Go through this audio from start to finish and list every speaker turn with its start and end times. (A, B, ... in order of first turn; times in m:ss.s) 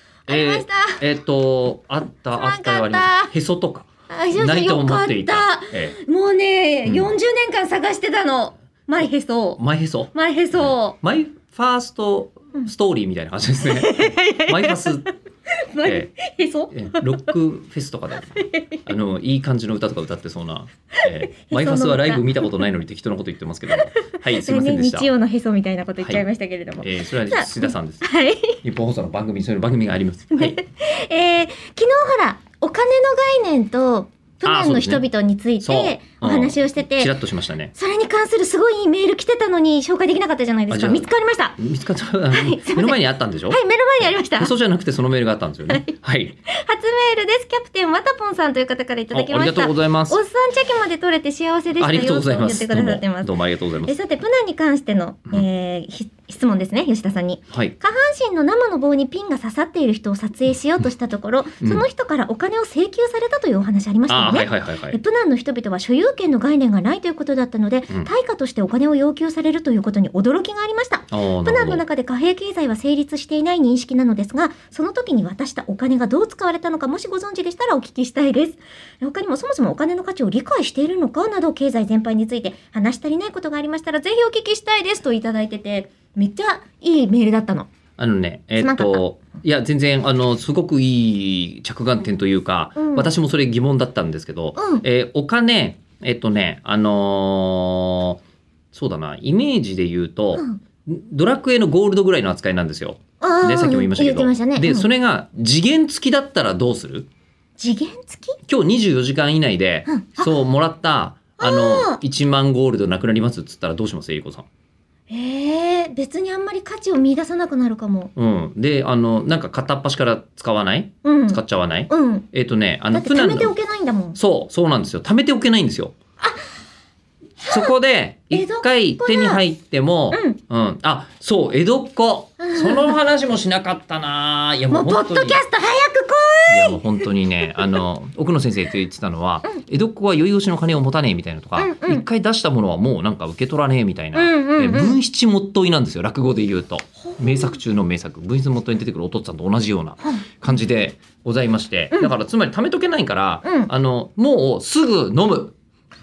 0:00.3-0:01.0 A
0:00.3-0:06.0 B
0:02.3-0:03.3 A
0:04.1-0:09.6 A
0:06.8-0:07.1 B
0:09.6-0:15.1 B
0:10.1-0:11.0 A
0:13.7-0:15.0 A
0:15.6-0:17.1 A
0:15.8-0:16.2 B
0:16.7-0:25.1 B
0:18.4-0:18.8 A
0:21.0-0:22.5 A
0:23.8-0:28.6 A
0:26.8-0:28.1 B
0:28.6-0:30.6 B
0:30.3-0:37.1 A
0:34.4-0:35.1 B
0:35.6-0:37.7 B
0:37.7-0:41.6 A
0:40.7-0:46.4 B
0:42.3-0:44.5 A
0:46.5-1:27.7 A
0:49.1-0:50.2 B
0:51.8-0:54.0 B
1:04.1-1:05.0 B
1:11.1-1:11.8 B
1:28.0-1:38.2 B
1:28.6-1:29.0 A
1:32.8-1:33.1 A
1:34.6-1:34.8 A
1:38.7-1:47.1 B
1:43.2-1:44.9 A
1:47.6-1:48.4 A
1:48.5-1:54.5 B
1:49.9-1:50.3 A
1:51.4-1:52.0 A
1:55.1-1:58.1 A
1:58.2-2:03.6 B
2:01.0-2:02.3 A
2:02.9-2:04.2 A
2:04.2-2:05.9 B
2:07.4-2:07.7 A
2:07.5-2:15.4 B
2:08.3-2:09.4 A
2:10.1-2:10.4 A
2:12.4-2:13.0 A
2:14.7-2:17.1 A
2:16.5-2:35.6 B
2:21.6-2:22.0 A
2:24.1-2:25.0 A
2:27.1-2:27.6 A
2:30.0-2:30.3 A
2:33.4-2:33.7 A